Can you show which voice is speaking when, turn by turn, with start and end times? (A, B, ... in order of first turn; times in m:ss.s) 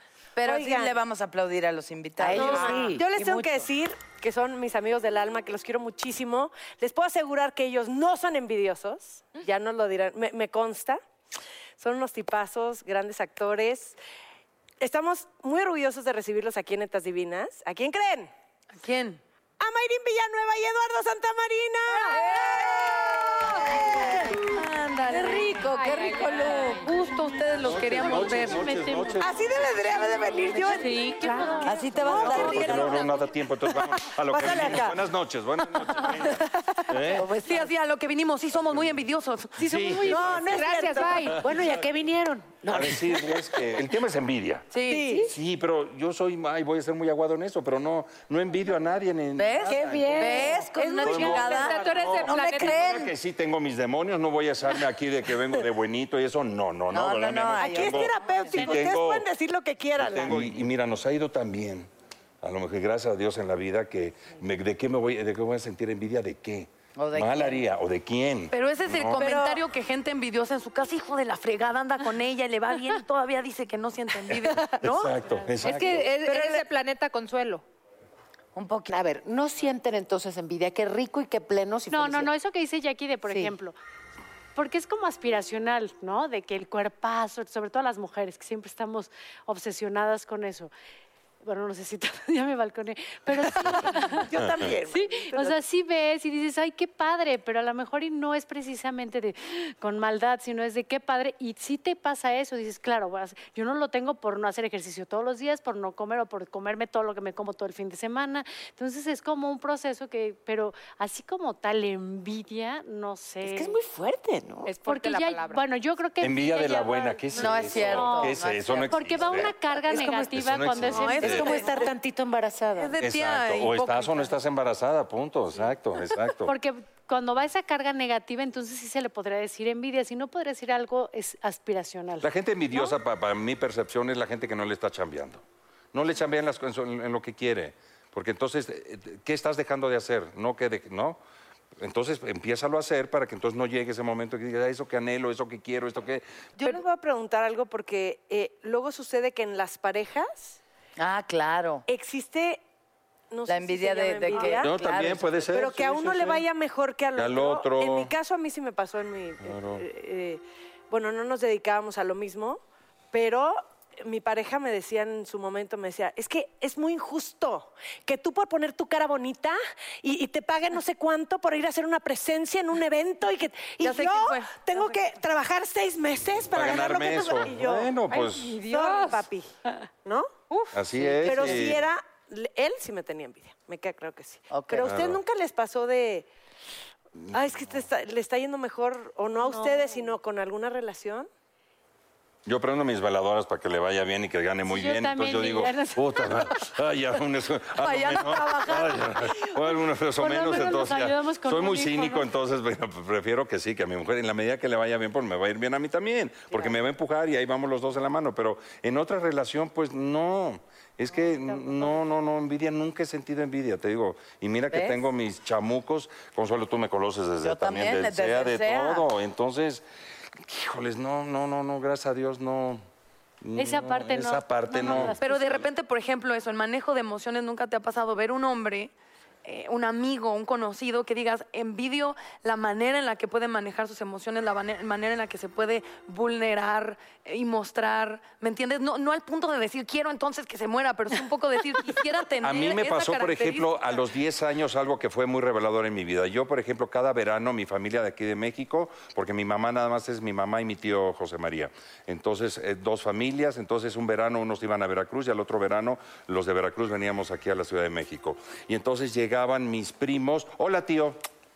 0:00.4-0:02.8 A
0:00.4-0:01.0 B
0:02.2-0:03.7 C
0:02.3-0:11.0 B
0:11.8-0:14.0 B
0:14.8-0:18.3 B
0:18.8-0:19.2 D
0:19.6-0:22.3 B
0:22.1-0:26.9 A
0:23.8-0:25.5 D
0:25.6-0:26.8 E
0:26.7-0:28.6 D
0:27.6-0:29.9 F
0:27.9-0:29.3 G
0:29.2-0:31.1 B
0:30.5-0:32.0 G
0:30.6-0:31.7 E
0:31.6-0:33.0 A
0:32.0-0:35.0 B
0:32.0-0:37.3 F
0:37.1-0:37.7 C
0:37.4-0:39.7 D
0:39.6-0:40.6 F
0:40.0-0:41.3 B
0:40.5-0:41.5 E
0:41.3-0:41.6 F
0:41.4-0:43.4 C
0:42.7-0:44.7 F
0:44.7-0:45.2 D
0:44.8-0:45.3 B
0:45.3-0:59.3 F
0:49.4-0:53.1 A
0:49.6-0:50.7 C
0:51.0-0:53.0 E
0:56.9-0:58.1 A
0:57.6-1:00.5 B
1:00.0-1:01.9 F
1:02.4-1:09.2 F
1:07.0-1:07.6 A
1:08.5-1:15.2 D
1:09.2-1:09.6 B
1:14.6-1:16.2 F
1:15.6-1:17.6 E
1:16.3-1:16.6 B
1:18.6-1:18.9 A
1:18.9-1:22.3 C
1:21.9-1:23.8 G
1:23.3-1:23.6 C
1:24.6-1:30.7 G
1:31.4-1:34.3 G
1:33.7-1:35.6 B
1:34.8-1:53.8 G
1:53.4-1:54.7 C
1:54.6-1:55.6 E
1:54.8-2:01.8 G
1:56.2-1:59.6 F
1:57.4-1:59.0 A
1:59.9-2:00.5 C
2:00.3-2:01.6 F
2:00.9-2:01.9 D
2:01.2-2:03.0 C
2:02.8-2:04.3 D
2:03.0-2:06.5 F
2:06.4-2:13.0 G
2:12.2-2:21.2 F
2:21.8-2:26.2 F
2:26.6-2:30.6 B
2:31.0-2:31.8 A
2:31.9-2:32.6 B
2:33.3-2:34.9 B
2:33.5-2:35.4 A
2:34.5-2:36.4 F
2:35.4-2:42.6 B
2:37.2-2:38.1 F
2:39.4-2:39.8 F
2:43.1-2:59.5 B
2:53.8-2:55.0 D
2:56.5-2:58.6 F
2:58.1-2:59.3 E
3:00.0-3:06.3 B
3:00.7-3:01.8 F
3:04.5-3:05.0 A
3:04.8-3:05.2 F
3:07.2-3:07.9 F
3:07.3-3:11.3 B
3:09.5-3:10.0 G
3:12.5-3:39.8 F
3:14.7-3:16.6 G
3:17.8-3:18.9 A
3:18.1-3:19.1 D
3:20.2-3:22.3 G
3:34.7-3:35.0 A
3:37.4-3:39.1 A
3:40.4-3:42.8 F
3:43.4-3:45.2 F
3:43.6-3:45.7 G
3:45.2-3:48.9 D
3:49.4-4:04.0 D
4:02.4-4:21.2 F